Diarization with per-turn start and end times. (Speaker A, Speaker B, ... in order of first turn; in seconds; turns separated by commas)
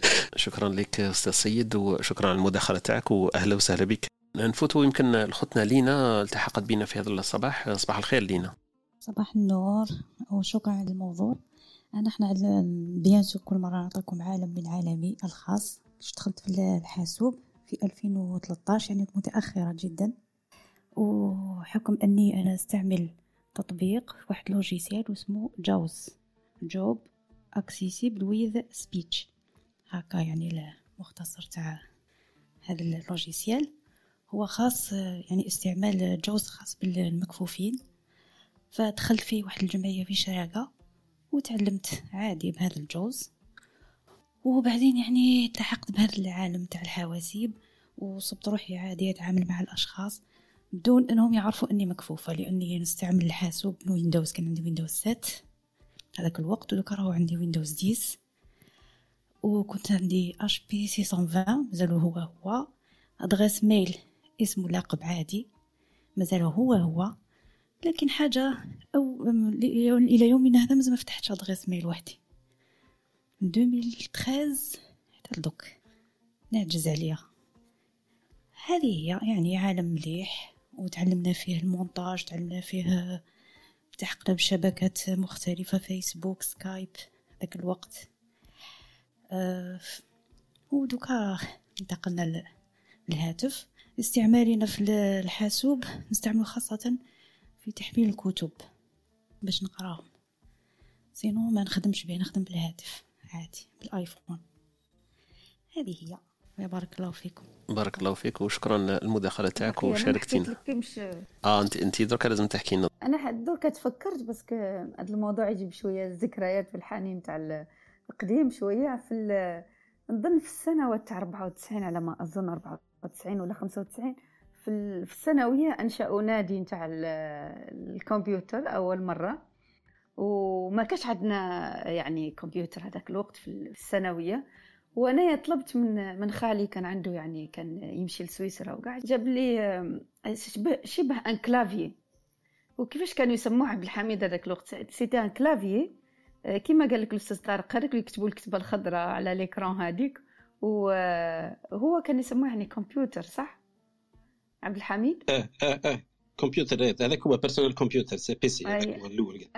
Speaker A: 0.4-8.5, Speaker B: 9.1-11.4, Speaker B: 12.0-20.1, Speaker B: 21.0-26.1, Speaker B: 26.7-27.1, Speaker B: 27.6-29.3, Speaker B: 29.9-31.8, Speaker B: 32.7-33.7, Speaker B: 34.3-37.8, Speaker B: 38.7-40.7, Speaker B: 41.3-43.3, Speaker B: 44.5-50.2, Speaker B: 50.8-55.4, Speaker B: 56.2-58.2, Speaker B: 59.4-62.7, Speaker B: 63.2-65.5, Speaker B: 66.2-67.1, Speaker B: 67.8-72.2, Speaker B: 73.4-75.8, Speaker B: 76.5-77.2, Speaker B: 78.7-83.2, Speaker B: 84.0-88.1, Speaker B: 89.3-90.0, Speaker B: 90.7-92.4, Speaker B: 93.1-97.0, Speaker B: 97.6-98.6, Speaker B: 99.4-100.1, Speaker B: 101.2-104.4, Speaker B: 105.8-107.5, Speaker A: 107.7-110.5, Speaker C: 109.6-111.0, Speaker A: 111.5-112.9, Speaker C: 113.0-117.5, Speaker C: 118.1-129.4, Speaker C: 130.2-134.4, Speaker C: 135.0-141.9, Speaker C: 142.8-145.9, Speaker C: 146.6-153.6, Speaker C: 154.6-155.2, Speaker D: 155.3-159.5, Speaker C: 158.7-159.0